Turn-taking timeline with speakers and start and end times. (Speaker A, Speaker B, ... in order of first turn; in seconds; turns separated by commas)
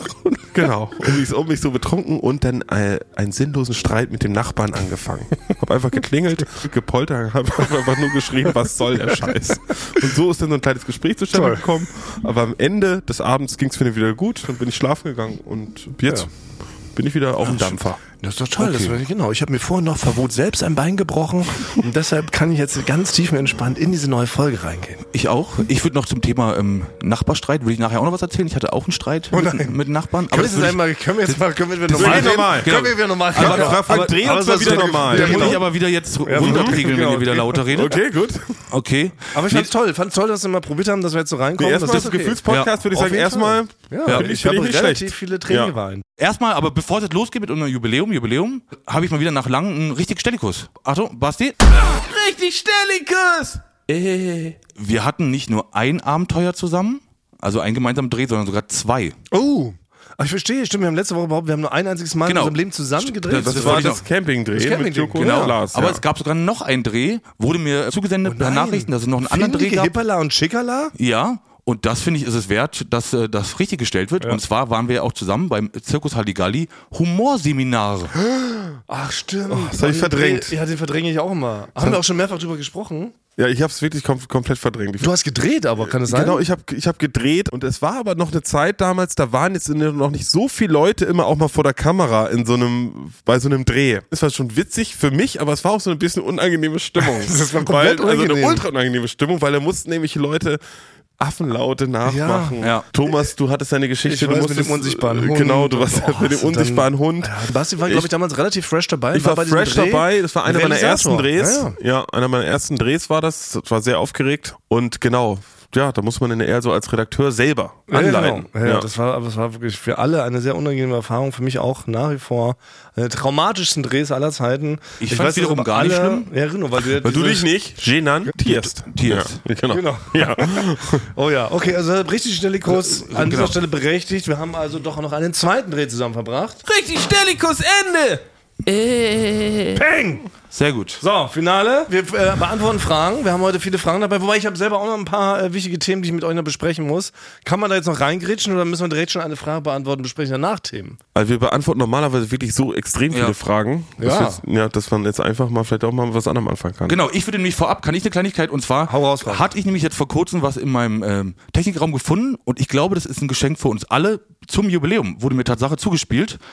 Speaker A: 0.2-16.3, Speaker B: 11.3-11.6, Speaker A: 16.9-18.0, Speaker C: 17.4-17.9, Speaker B: 18.2-25.0, Speaker C: 18.6-18.9, Speaker C: 25.1-38.0, Speaker B: 29.3-35.7, Speaker A: 31.9-35.6, Speaker B: 36.2-37.7, Speaker A: 36.4-36.8, Speaker A: 37.7-38.6, Speaker C: 38.7-39.7, Speaker B: 39.3-46.0, Speaker A: 41.6-45.7, Speaker C: 46.2-51.7, Speaker A: 51.7-54.5, Speaker C: 54.7-59.1, Speaker B: 59.3-64.0, Speaker C: 62.2-64.0, Speaker A: 63.3-66.0, Speaker B: 64.5-65.5, Speaker C: 65.2-69.9, Speaker B: 68.2-70.9, Speaker C: 71.0-78.1, Speaker B: 78.9-83.1, Speaker A: 79.5-80.5, Speaker A: 83.4-85.1, Speaker B: 85.0-86.4, Speaker A: 85.8-100.6, Speaker B: 97.0-98.6, Speaker A: 101.2-108.1, Speaker B: 102.0-103.1, Speaker C: 102.6-102.8, Speaker B: 104.0-111.8, Speaker A: 109.1-118.9, Speaker B: 117.9-127.5, Speaker C: 125.0-126.3, Speaker A: 127.0-131.1, Speaker C: 128.4-129.4, Speaker B: 129.7-136.6, Speaker C: 132.7-133.6, Speaker A: 136.6-138.2, Speaker C: 138.6-139.8, Speaker B: 139.7-140.3, Speaker C: 140.5-141.0, Speaker B: 141.0-151.0, Speaker A: 151.1-157.0, Speaker B: 154.0-154.4, Speaker C: 156.9-166.4, Speaker B: 158.9-159.5